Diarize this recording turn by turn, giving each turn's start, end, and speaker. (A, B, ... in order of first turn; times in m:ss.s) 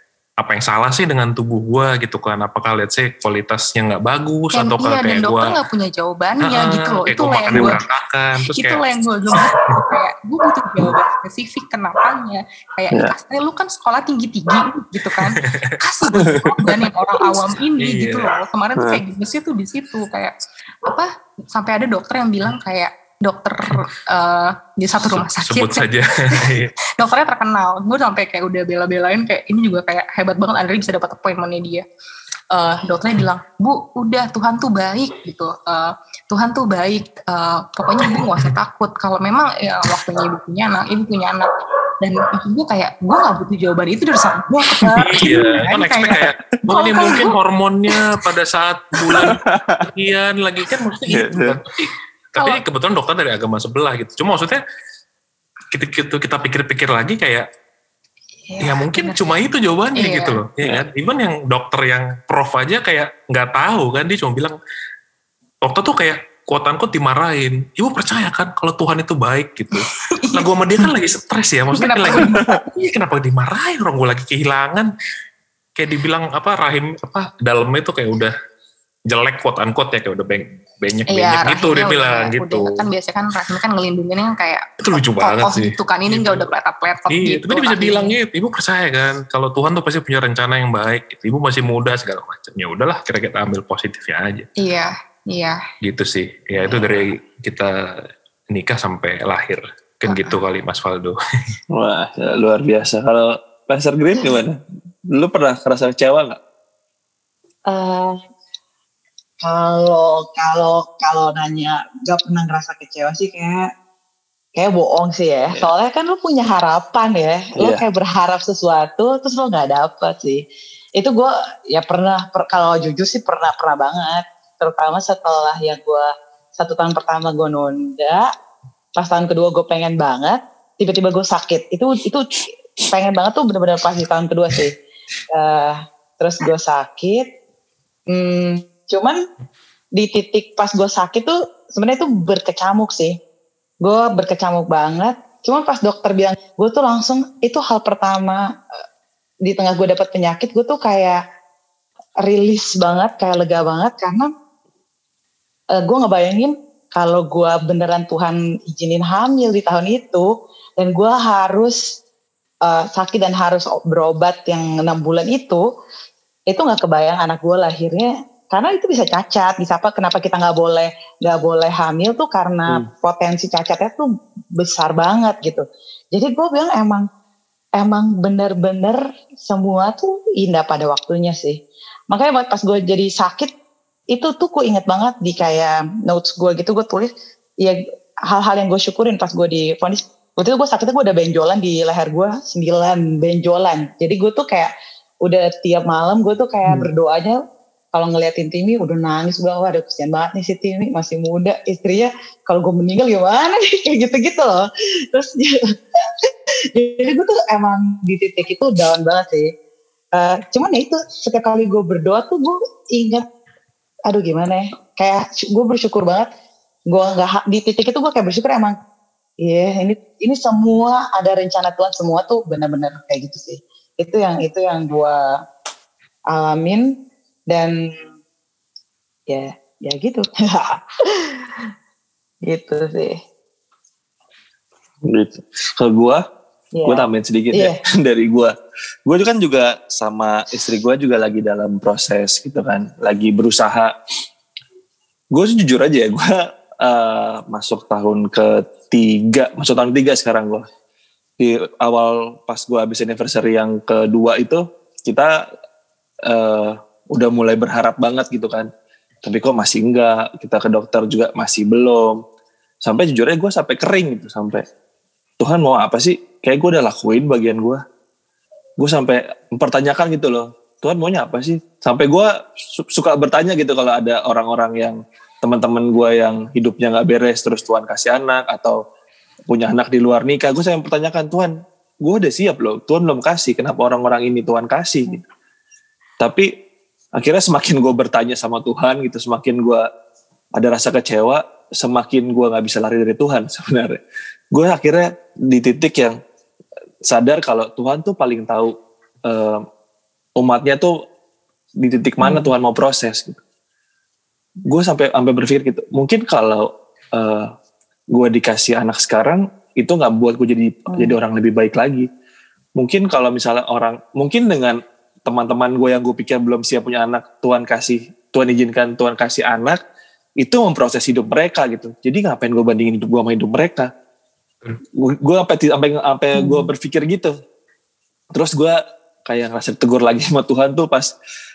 0:00.4-0:05.6 A
0:04.5-0:07.8 B
0:06.4-0:08.8 A
0:07.5-0:07.8 C
0:08.5-0:26.5 B
0:09.5-0:09.9 A
0:15.4-0:16.7 A
0:17.8-0:18.3 A
0:25.1-0:26.7 A
0:27.0-0:31.8 B
0:32.5-0:47.3 B
0:44.8-0:45.4 D
0:44.9-0:54.6 A
0:46.9-0:47.2 C
0:49.0-0:49.9 C
0:51.0-0:51.6 C
0:55.7-0:57.5 A
0:58.5-0:59.2 B
0:58.6-1:04.6 A
1:00.0-1:00.4 B
1:05.6-1:14.9 A
1:09.8-1:10.9 B
1:11.7-1:12.6 B
1:15.8-1:18.3 A
1:19.1-1:22.8 A
1:21.1-1:28.1 B
1:24.8-1:26.5 A
1:27.1-1:34.5 A
1:34.6-1:35.6 B
1:35.8-1:37.7 A
1:38.5-1:41.2 A
1:40.1-1:40.4 B
1:41.7-1:44.6 C
1:45.1-1:46.4 C
1:47.7-1:48.2 D
1:49.4-1:53.7 D
1:54.6-2:00.4 D
1:57.6-1:57.8 C
2:01.0-2:08.3 D
2:09.0-2:12.3 D
2:12.9-2:14.8 D
2:15.3-2:17.2 D
2:18.1-2:19.2 D
2:20.0-2:23.2 D
2:23.8-2:28.8 D
2:29.5-2:31.2 D
2:32.2-2:34.3 D
2:35.8-2:40.3 D
2:40.8-2:41.8 D
2:42.7-2:45.6 D
2:46.5-2:57.0 D
2:57.8-3:01.6 D
3:02.1-3:03.5 D
3:04.1-3:07.1 D
3:07.6-3:14.7 D
3:15.2-3:17.4 D
3:17.9-3:24.6 D
3:25.1-3:29.5 D
3:30.2-3:33.3 D
3:34.1-3:36.3 D
3:36.9-3:38.8 D
3:39.4-3:45.2 D
3:46.3-3:46.9 D
3:47.5-3:48.1 D
3:49.3-3:51.7 D
3:52.5-3:53.2 D
3:55.0-3:56.2 C
3:56.8-3:57.8 D
3:56.9-3:58.5 C
3:59.1-4:03.9 C
4:05.3-4:10.7 C
4:11.4-4:15.4 C
4:16.3-4:18.7 C
4:19.2-4:22.2 C
4:22.8-4:24.6 C
4:25.4-4:27.8 C
4:28.8-4:38.8 C
4:39.5-4:45.2 C
4:46.2-4:46.5 C
4:47.2-4:49.9 C
4:50.6-4:56.2 C
4:57.1-4:58.8 C
4:59.3-4:59.6 C
5:00.4-5:01.0 C
5:01.8-5:03.4 C
5:02.2-5:02.5 D
5:04.7-5:07.5 C
5:08.1-5:12.1 C
5:10.9-5:11.2 D
5:12.8-5:19.8 C
5:20.4-5:23.9 C
5:25.0-5:27.4 C
5:26.4-5:26.7 D
5:28.3-5:31.1 C